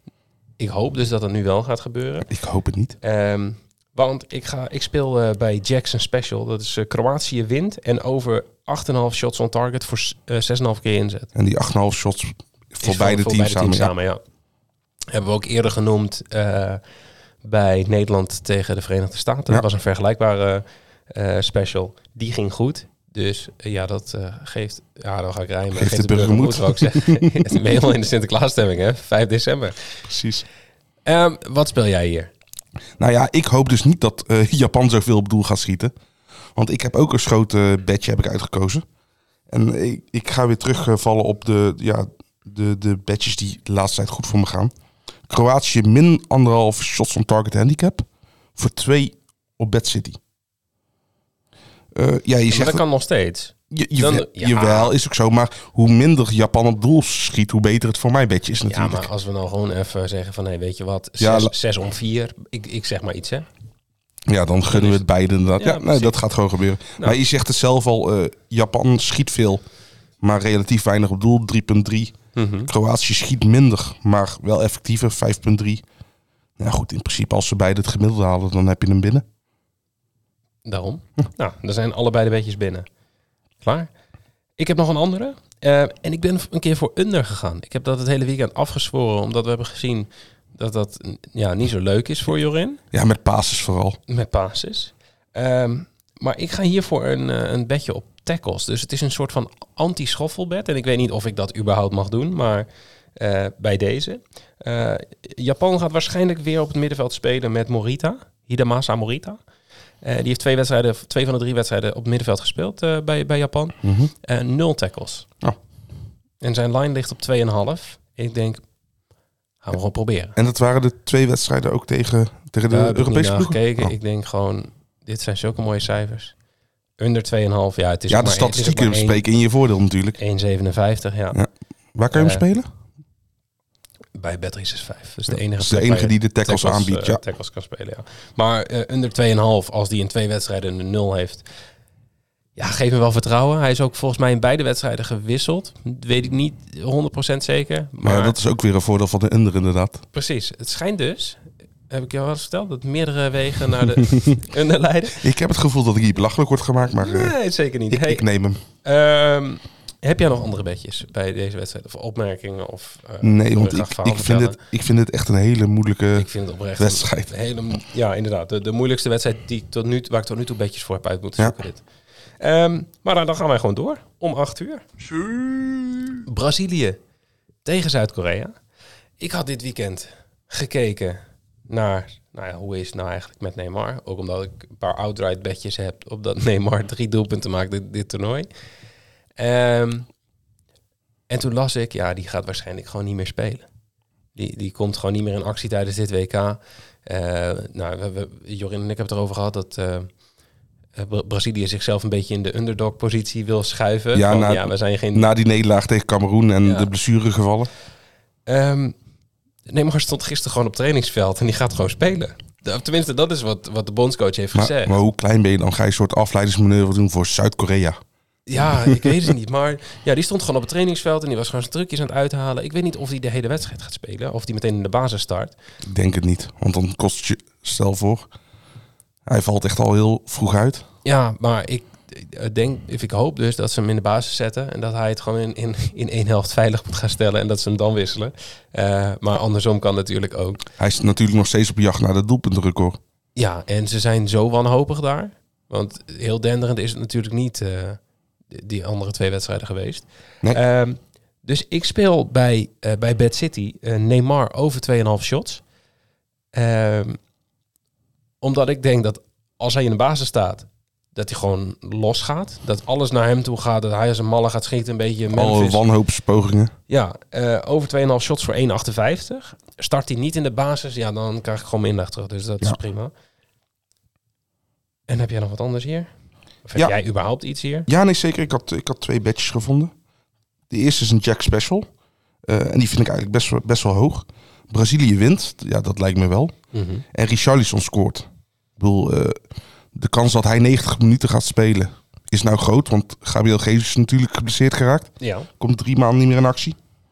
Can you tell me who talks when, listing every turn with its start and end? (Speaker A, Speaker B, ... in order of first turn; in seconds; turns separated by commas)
Speaker A: 0.6-2.3, Speaker B: 2.3-3.0, Speaker A: 3.0-11.3, Speaker B: 11.3-13.9, Speaker A: 12.8-14.2, Speaker A: 15.1-16.8, Speaker A: 17.4-29.8, Speaker B: 25.7-27.6, Speaker B: 30.1-30.4, Speaker A: 31.1-32.3, Speaker B: 33.0-35.9, Speaker B: 36.5-38.8, Speaker B: 39.5-44.7, Speaker B: 45.3-48.0, Speaker B: 48.5-50.2, Speaker B: 51.9-52.8, Speaker A: 52.5-54.9, Speaker B: 53.7-59.1, Speaker A: 58.7-63.5, Speaker B: 61.2-61.5, Speaker B: 64.3-69.6, Speaker A: 64.7-65.1, Speaker A: 65.6-66.2, Speaker B: 70.2-75.8, Speaker A: 72.3-72.7, Speaker B: 76.6-79.2, Speaker A: 80.6-82.8, Speaker A: 83.6-83.9, Speaker A: 84.6-92.8, Speaker B: 92.9-94.0, Speaker A: 94.1-109.4, Speaker A: 110.0-115.3, Speaker B: 113.8-114.1, Speaker A: 116.4-118.6, Speaker A: 119.6-120.3, Speaker B: 120.3-123.9, Speaker A: 122.7-126.3, Speaker A: 127.0-129.2, Speaker B: 128.1-130.2, Speaker A: 130.2-131.4, Speaker B: 131.3-132.7, Speaker A: 132.1-132.4, Speaker A: 134.2-141.4, Speaker B: 135.5-137.2, Speaker A: 142.6-148.3, Speaker B: 148.0-150.0, Speaker A: 150.1-155.2, Speaker B: 154.0-154.3, Speaker B: 155.1-157.3, Speaker A: 157.0-158.2, Speaker B: 157.9-158.6, Speaker A: 158.8-164.6, Speaker B: 163.2-167.3, Speaker A: 166.2-171.8, Speaker A: 172.4-174.8, Speaker B: 175.1-176.1, Speaker A: 176.2-177.0, Speaker A: 177.6-178.5, Speaker A: 179.2-188.5, Speaker A: 189.4-190.1, Speaker A: 191.3-193.7, Speaker A: 194.3-200.1, Speaker A: 200.9-205.3, Speaker B: 204.1-207.7, Speaker A: 208.5-208.9, Speaker A: 209.7-215.0, Speaker B: 214.5-218.0, Speaker A: 218.5-225.5, Speaker B: 218.6-219.2, Speaker B: 225.9-228.3, Speaker B: 229.2-230.8, Speaker A: 231.0-240.6, Speaker B: 240.8-243.0, Speaker A: 243.3-248.0, Speaker A: 248.5-255.6, Speaker A: 256.5-257.2, Speaker A: 258.4-265.8, Speaker B: 265.3-266.7, Speaker A: 266.9-273.1, Speaker A: 275.1-276.1, Speaker A: 276.6-277.9, Speaker B: 277.9-279.9, Speaker B: 280.7-281.9, Speaker B: 282.5-286.5, Speaker A: 286.7-287.0, Speaker B: 287.1-289.4, Speaker B: 289.9-296.8, Speaker A: 295.2-295.5